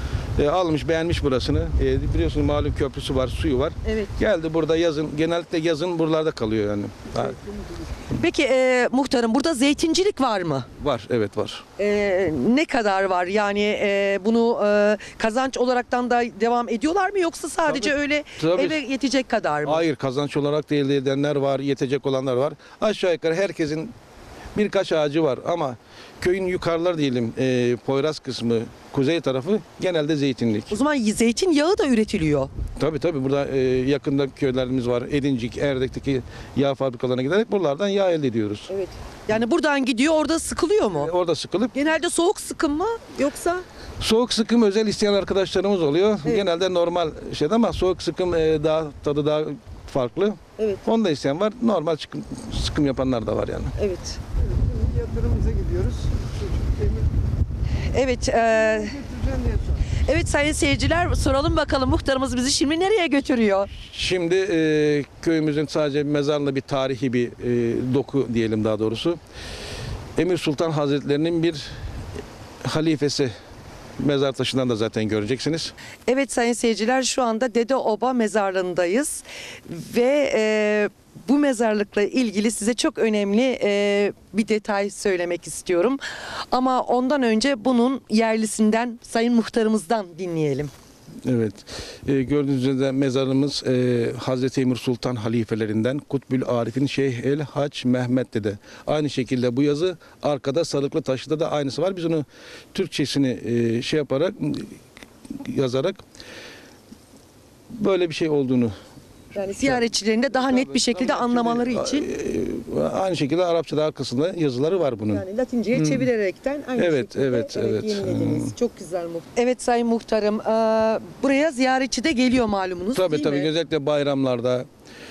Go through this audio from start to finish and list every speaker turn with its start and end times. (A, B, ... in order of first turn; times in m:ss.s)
0:00.4-0:07.4 A
0:03.8-0:04.1 B
0:08.1-0:10.7 B
0:10.8-0:11.6 A
0:11.8-0:19.8 B
0:17.7-0:18.8 A
0:19.7-0:23.9 A
0:24.6-0:30.7 A
0:30.7-0:32.5 B
0:32.8-0:38.7 A
0:38.7-0:41.1 B
0:40.9-0:41.7 A
0:41.7-0:43.6 B
0:44.0-0:53.7 A
0:50.6-0:50.8 B
0:53.8-0:54.2 B
0:54.4-0:57.1 C
0:57.9-0:59.0 B
0:58.5-0:59.8 C
1:00.1-1:03.7 B
1:03.8-1:09.2 A
1:10.2-1:11.7 A
1:12.6-1:13.3 A
1:14.0-1:15.7 A
1:16.1-1:30.7 B
1:31.2-1:44.8 A
1:45.3-1:46.0 A
1:47.7-1:48.8 A
1:49.3-1:52.1 B
1:49.5-1:56.1 A
1:55.1-2:03.5 B
1:56.8-1:58.5 A
2:03.0-2:04.7 A